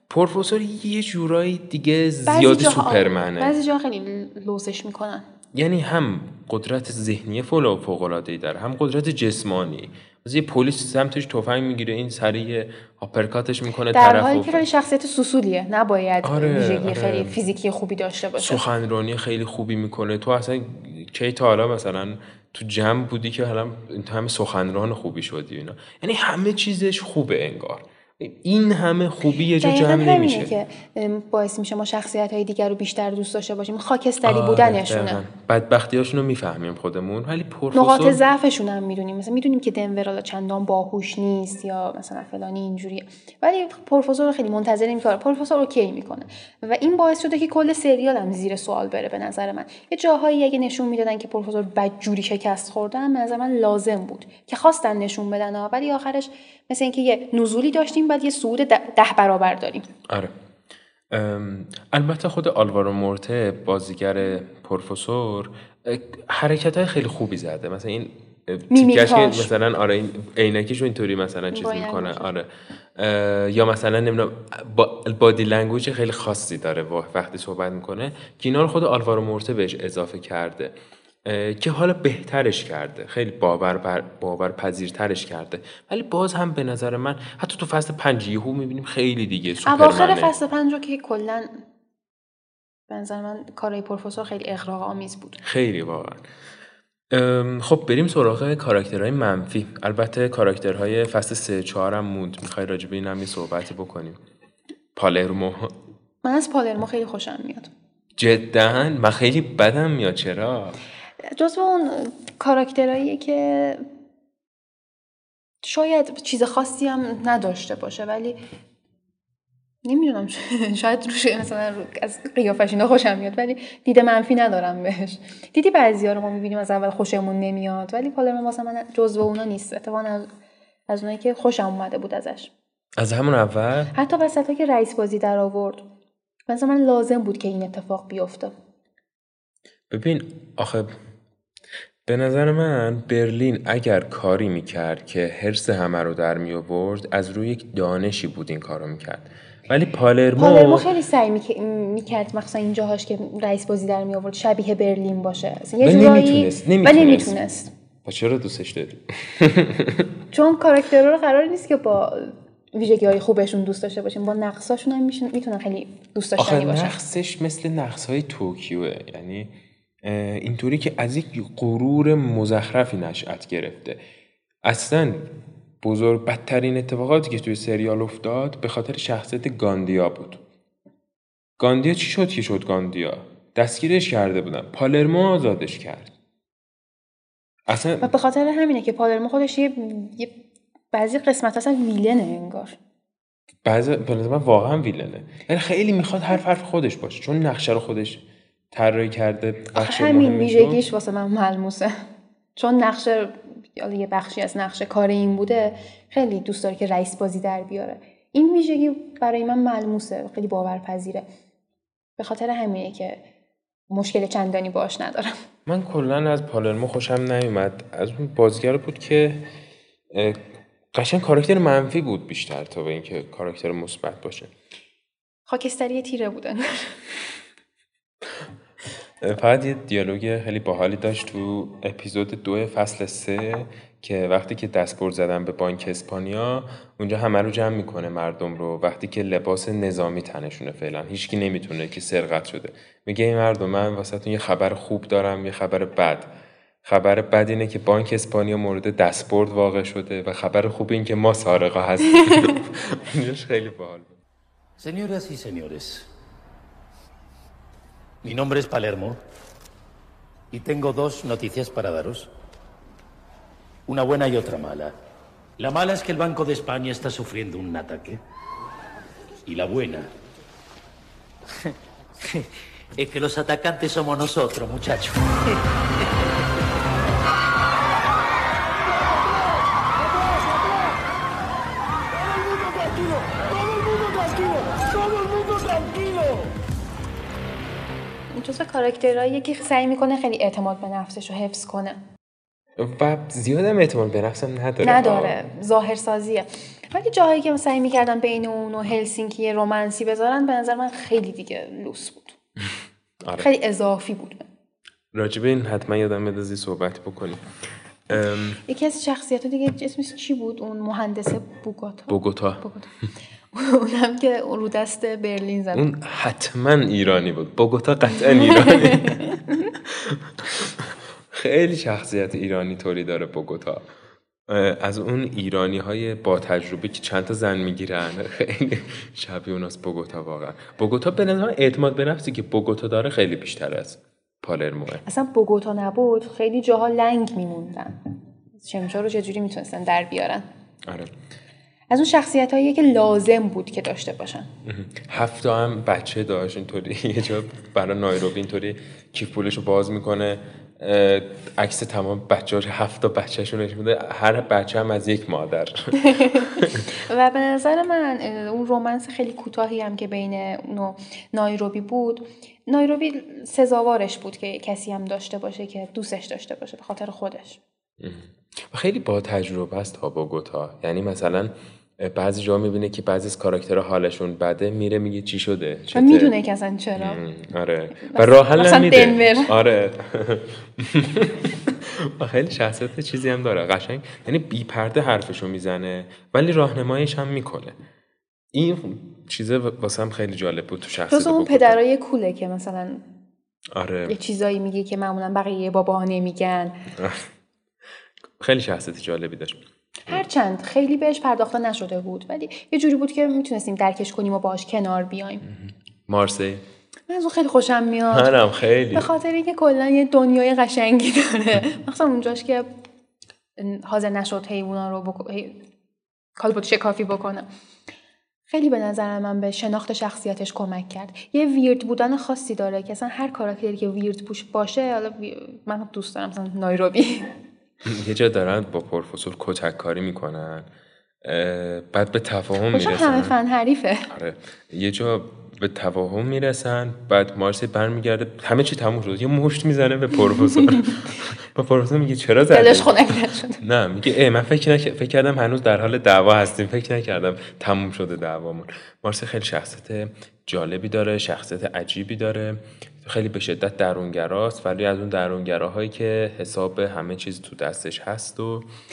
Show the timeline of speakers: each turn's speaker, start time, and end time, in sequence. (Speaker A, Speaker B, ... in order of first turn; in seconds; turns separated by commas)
Speaker A: 0.1-3.5, Speaker B: 2.2-5.2, Speaker A: 5.5-14.6, Speaker B: 13.9-18.6, Speaker A: 16.2-17.4, Speaker A: 18.4-30.5, Speaker B: 29.6-35.2, Speaker A: 34.2-38.2, Speaker B: 37.7-59.9, Speaker A: 60.1-60.3, Speaker A: 61.1-90.3, Speaker B: 68.7-69.5, Speaker B: 71.5-72.3, Speaker B: 89.6-91.6, Speaker B: 92.9-95.4, Speaker A: 95.4-96.2, Speaker A: 97.1-104.2, Speaker A: 104.9-105.7, Speaker B: 106.2-107.7, Speaker A: 108.2-110.8, Speaker B: 111.3-113.8, Speaker B: 115.6-118.3, Speaker B: 119.8-130.3, Speaker B: 130.9-132.5, Speaker A: 133.0-133.9, Speaker B: 133.9-135.8, Speaker B: 136.5-138.5, Speaker A: 139.9-140.9, Speaker A: 142.0-150.9, Speaker B: 150.4-157.7, Speaker A: 155.8-157.3, Speaker A: 158.0-160.1, Speaker B: 160.3-167.0, Speaker A: 166.4-174.0, Speaker A: 174.6-175.3, Speaker A: 175.8-180.4, Speaker A: 181.6-186.1, Speaker A: 187.7-188.1, Speaker B: 188.0-190.4, Speaker B: 190.9-192.8, Speaker A: 193.6-200.8, Speaker B: 199.7-201.9, Speaker B: 202.6-211.2, Speaker B: 212.2-213.2, Speaker B: 213.9-215.3, Speaker A: 215.7-219.4, Speaker A: 220.1-220.4, Speaker A: 220.9-224.5, Speaker B: 225.5-226.9, Speaker A: 229.2-246.3, Speaker A: 246.8-254.2, Speaker C: 254.8-256.1, Speaker C: 258.2-259.2, Speaker C: 260.5-262.3, Speaker C: 263.9-264.9, Speaker C: 265.6-268.2, Speaker C: 269.4-270.1, Speaker C: 273.0-275.6, Speaker C: 280.2-280.8, Speaker C: 282.3-286.4, Speaker B: 288.3-292.0, Speaker A: 292.8-295.4, Speaker B: 294.8-302.4, Speaker A: 303.2-303.5, Speaker B: 303.4-304.4, Speaker A: 305.1-307.4, Speaker A: 308.1-308.6, Speaker B: 308.6-312.9, Speaker A: 312.1-312.6, Speaker B: 313.5-315.9, Speaker A: 315.7-323.9, Speaker B: 318.6-319.2, Speaker A: 324.5-335.0, Speaker B: 335.1-338.0, Speaker B: 338.6-340.5, Speaker A: 340.9-341.1, Speaker B: 341.9-344.5, Speaker A: 344.6-356.9, Speaker B: 356.0-367.6, Speaker A: 368.0-376.3, Speaker B: 375.9-377.2, Speaker A: 376.9-387.8, Speaker B: 378.0-379.5, Speaker A: 388.5-391.8, Speaker B: 391.1-393.0, Speaker A: 393.7-394.1, Speaker B: 394.1-396.8, Speaker A: 396.9-397.3, Speaker A: 398.4-400.2, Speaker B: 400.1-405.4, Speaker A: 405.5-406.6, Speaker B: 407.1-408.3, Speaker A: 408.1-409.1, Speaker B: 408.9-412.7, Speaker B: 413.6-415.6, Speaker B: 416.4-417.5, Speaker B: 418.5-427.3, Speaker A: 427.8-430.7, Speaker A: 431.2-433.3, Speaker B: 432.7-434.1, Speaker A: 434.1-458.7, Speaker B: 442.5-443.6